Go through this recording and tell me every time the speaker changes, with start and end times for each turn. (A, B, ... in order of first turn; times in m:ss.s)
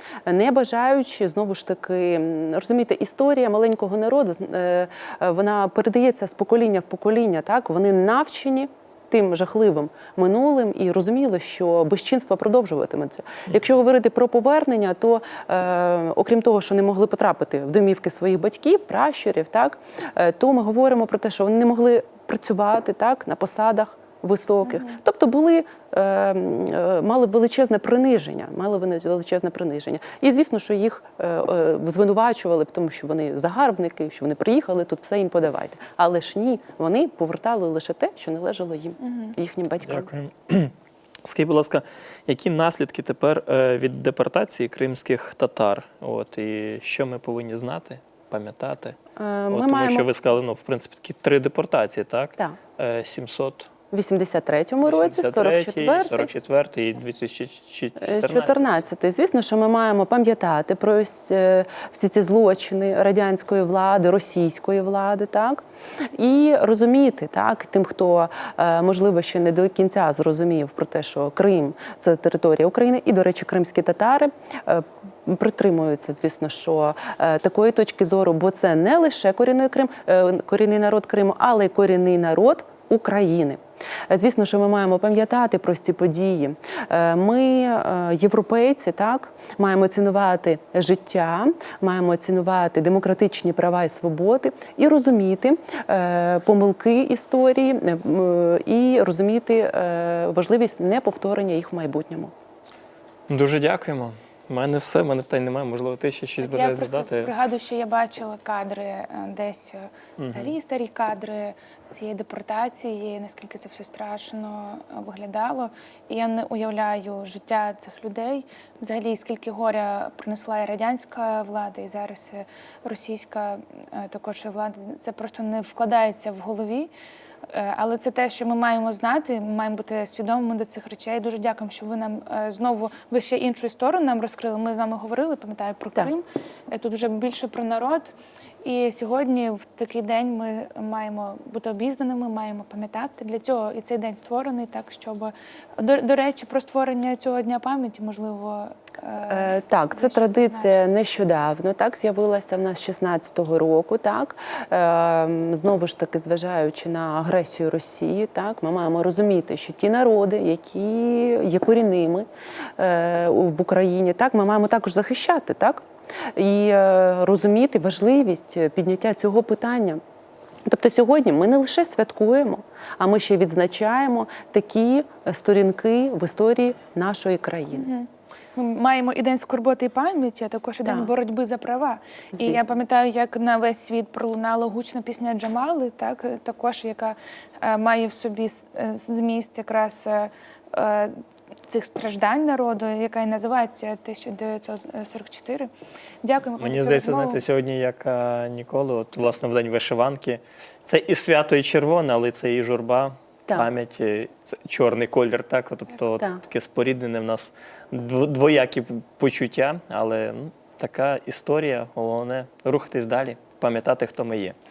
0:00.3-0:40.1 A
0:39.1-0:39.4 B
0:39.9-0:40.7 C
0:41.2-0:49.0 C
0:49.2-0:50.1 A
0:49.5-0:53.7 C
0:53.9-0:56.3 A
0:54.8-0:58.6 C
0:58.0-1:05.6 A
1:06.2-1:42.3 A
1:43.3-1:47.3 C
1:46.4-2:06.9 B
1:50.2-1:50.6 C
2:07.5-2:18.1 B
2:18.6-2:30.8 B
2:29.3-2:45.8 A
2:46.4-2:50.0 A
2:50.7-2:57.9 A
2:57.8-3:11.1 B
3:00.8-3:01.1 A
3:02.4-3:02.7 A
3:11.7-3:15.7 B
3:16.2-3:17.4 B
3:16.6-3:34.6 C